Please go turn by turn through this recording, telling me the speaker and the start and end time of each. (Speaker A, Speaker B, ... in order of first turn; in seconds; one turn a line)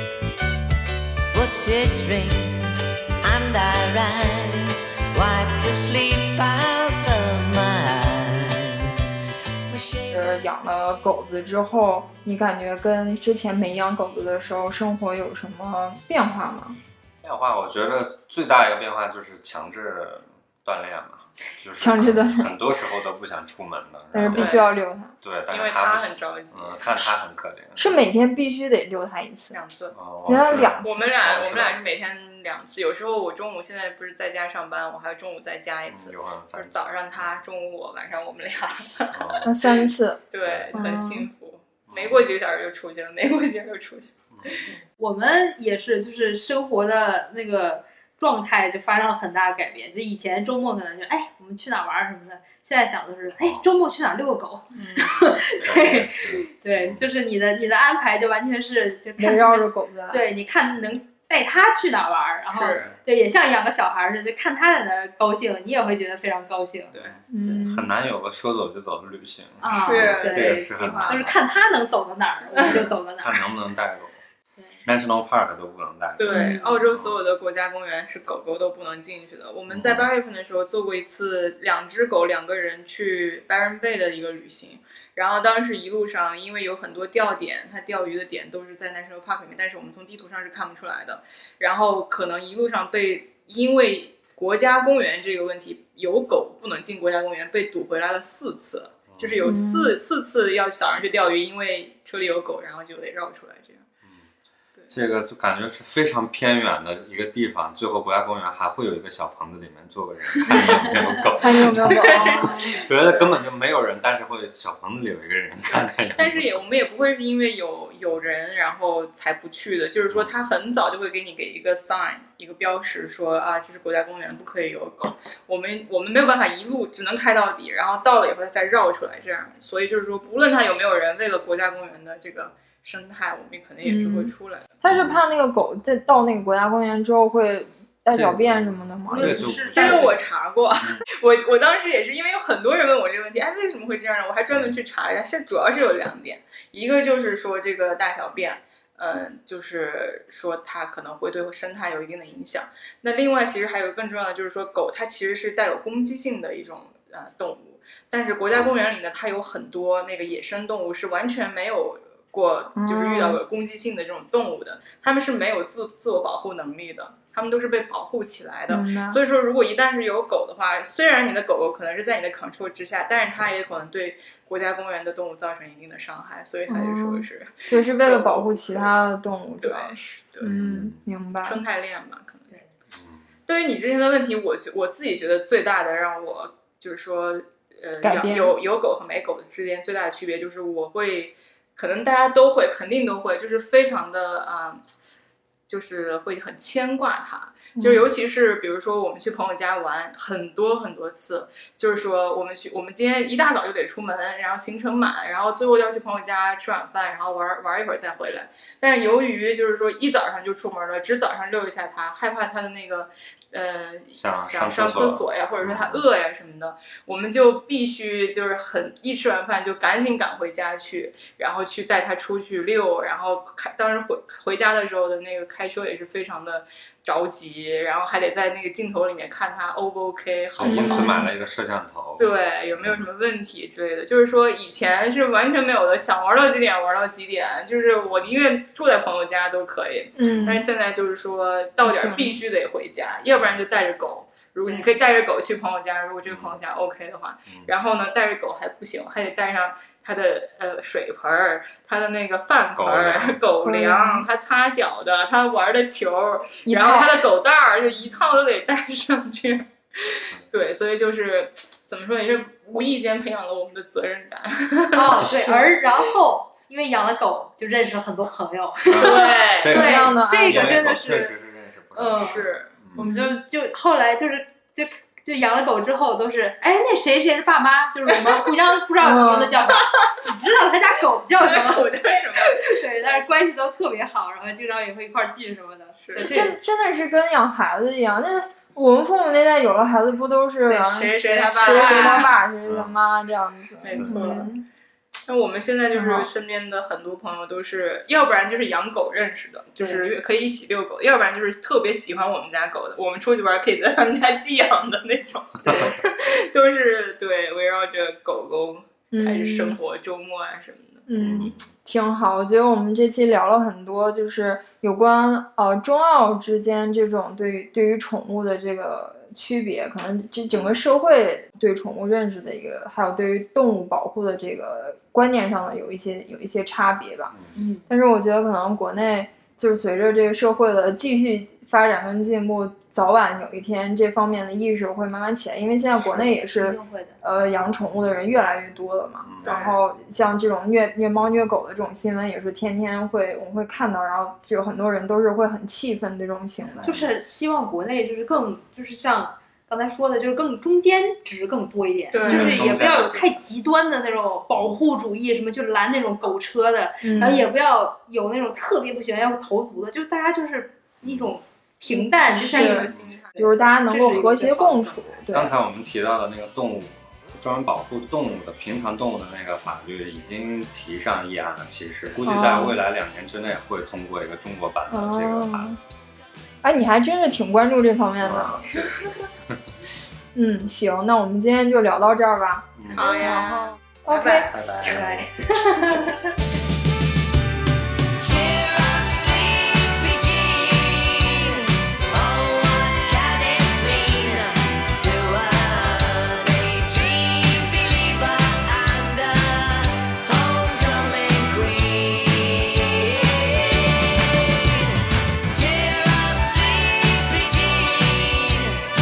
Speaker A: 1.3-9.1
Speaker A: 9.7-10.3
Speaker B: 10.1-16.8
Speaker C: 17.2-24.7
Speaker B: 21.8-22.5
Speaker B: 24.1-25.1
Speaker D: 24.3-24.7
Speaker C: 25.2-28.1
Speaker D: 25.5-27.1
Speaker B: 27.8-29.6
Speaker D: 29.5-29.9
Speaker C: 29.9-31.9
Speaker B: 30.3-31.0
Speaker D: 30.8-39.5
Speaker C: 35.9-37.4
Speaker C: 39.1-39.5
Speaker B: 39.5-40.2
Speaker D: 40.3-44.7
Speaker C: 40.4-40.8
Speaker B: 40.7-41.3
Speaker C: 41.9-42.3
Speaker C: 44.3-44.6
Speaker E: 45.0-66.9
Speaker D: 54.7-55.4
Speaker C: 55.6-57.0
Speaker B: 59.2-60.2
Speaker D: 62.5-63.0
Speaker D: 66.9-67.2
Speaker B: 67.3-67.9
Speaker C: 67.6-71.4
Speaker E: 69.6-73.4
Speaker D: 69.7-71.2
Speaker D: 72.5-72.8
Speaker C: 72.6-74.2
Speaker C: 74.8-77.2
Speaker D: 76.2-103.8
Speaker B: 76.3-76.7
Speaker E: 76.4-76.8
Speaker C: 79.7-80.1
Speaker C: 99.1-99.5
Speaker B: 99.4-100.0
Speaker C: 104.9-116.6
Speaker B: 111.0-112.8
Speaker D: 111.9-113.2
Speaker D: 116.2-134.7
Speaker C: 120.1-120.3
Speaker B: 133.8-139.5
Speaker C: 134.9-135.2
Speaker C: 138.1-140.3
Speaker E: 139.1-140.1
Speaker D: 139.8-178.9
Speaker B: 162.8-163.4
Speaker B: 168.7-169.2
Speaker B: 176.7-181.6
Speaker D: 179.6-180.5
Speaker C: 180.4-181.0
Speaker D: 181.4-182.6
Speaker C: 182.9-183.2
Speaker D: 183.5-194.8
Speaker B: 188.0-188.6
Speaker D: 195.7-231.2
Speaker B: 197.8-198.1
Speaker C: 214.1-216.1
Speaker C: 230.6-233.0
Speaker B: 230.6-231.3
Speaker D: 232.2-265.6
Speaker B: 240.2-240.7
Speaker C: 240.2-240.6
Speaker B: 241.8-242.4
Speaker C: 246.3-246.6
Speaker C: 252.8-253.4
Speaker B: 253.6-254.3
Speaker B: 256.7-257.2
Speaker E: 264.9-271.3
Speaker B: 265.4-265.6
Speaker C: 268.9-273.1
Speaker D: 268.9-269.9
Speaker B: 269.7-270.8
Speaker E: 271.9-272.4
Speaker D: 272.1-272.7
Speaker E: 272.9-281.9
Speaker B: 273.0-273.4
Speaker B: 279.0-279.5
Speaker D: 279.0-280.1
Speaker D: 281.4-282.8
Speaker E: 282.4-286.6
Speaker D: 286.0-286.3
Speaker B: 286.2-294.6
Speaker E: 290.7-292.3
Speaker D: 290.9-292.3
Speaker C: 292.6-292.9
Speaker D: 293.8-294.5
Speaker C: 293.9-294.2
Speaker D: 295.3-311.1
Speaker B: 295.9-296.3
Speaker C: 305.7-305.9
Speaker B: 309.1-309.8
Speaker B: 311.1-327.3
Speaker C: 311.2-311.7
Speaker E: 327.6-327.9
Speaker B: 327.9-346.9
Speaker E: 336.2-337.2
Speaker C: 339.2-339.6
Speaker D: 339.4-339.8
Speaker C: 346.7-347.1
Speaker E: 346.8-362.9
Speaker D: 352.1-352.6
Speaker B: 352.3-352.6
Speaker C: 352.3-353.4
Speaker C: 354.5-354.8
Speaker B: 357.0-357.5
Speaker C: 357.0-357.4
Speaker C: 361.0-361.4
Speaker B: 361.9-365.6
Speaker D: 362.2-363.6
Speaker E: 363.8-365.0
Speaker C: 365.3-375.8
Speaker B: 372.2-372.8
Speaker B: 374.9-375.8
Speaker B: 376.6-379.1
Speaker C: 378.2-379.6
Speaker B: 380.4-384.5
Speaker C: 382.8-383.4
Speaker D: 382.9-385.2
Speaker C: 384.5-385.3
Speaker E: 385.7-386.1
Speaker A: 388.2-404.9
Speaker A: 405.5-408.9